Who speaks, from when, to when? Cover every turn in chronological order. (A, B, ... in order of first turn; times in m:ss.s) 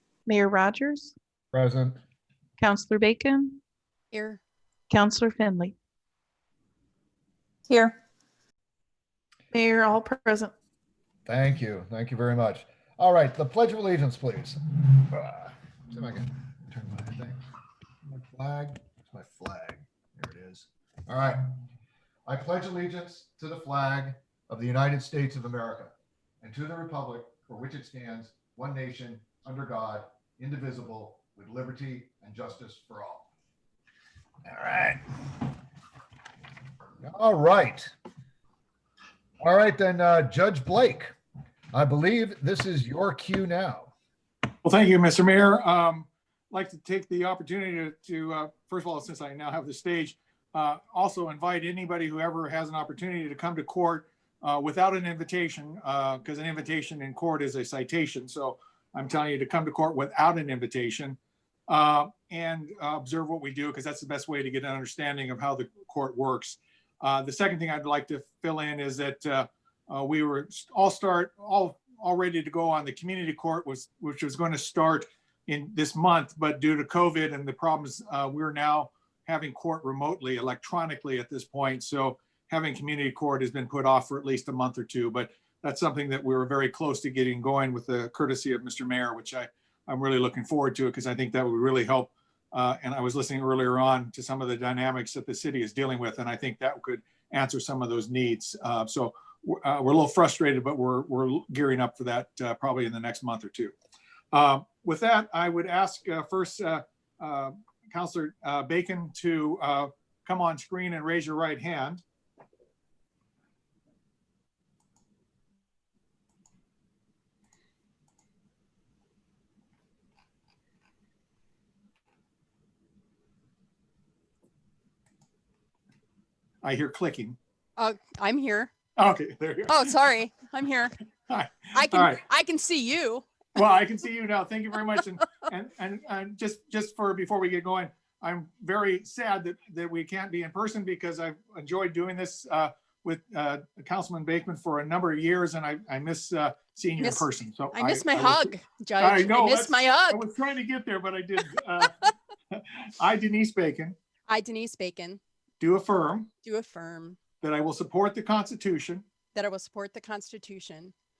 0:00.3-0:01.1 A
0:01.5-0:02.0 B
0:02.6-0:03.6 A
0:04.1-0:04.4 C
0:04.9-0:05.8 A
0:09.5-0:10.5 A
0:11.2-0:17.4 B
0:18.0-0:21.4 B
0:22.3-0:33.3 B
0:34.4-0:35.0 B
0:37.0-0:37.9 B
0:39.4-0:41.1 B
0:41.7-0:43.9 B
0:44.6-1:43.7 D
1:44.3-1:52.0 D
2:06.6-2:07.4 D
2:07.8-2:08.7 C
2:09.0-2:09.9 D
2:09.7-2:10.9 C
2:11.3-2:12.2 D
2:11.7-2:13.3 C
2:13.6-2:34.0 D
2:27.0-2:30.2 C
2:34.3-2:35.2 C
2:35.6-2:36.3 D
2:36.4-2:37.2 C
2:37.4-2:39.0 D
2:39.3-2:40.9 C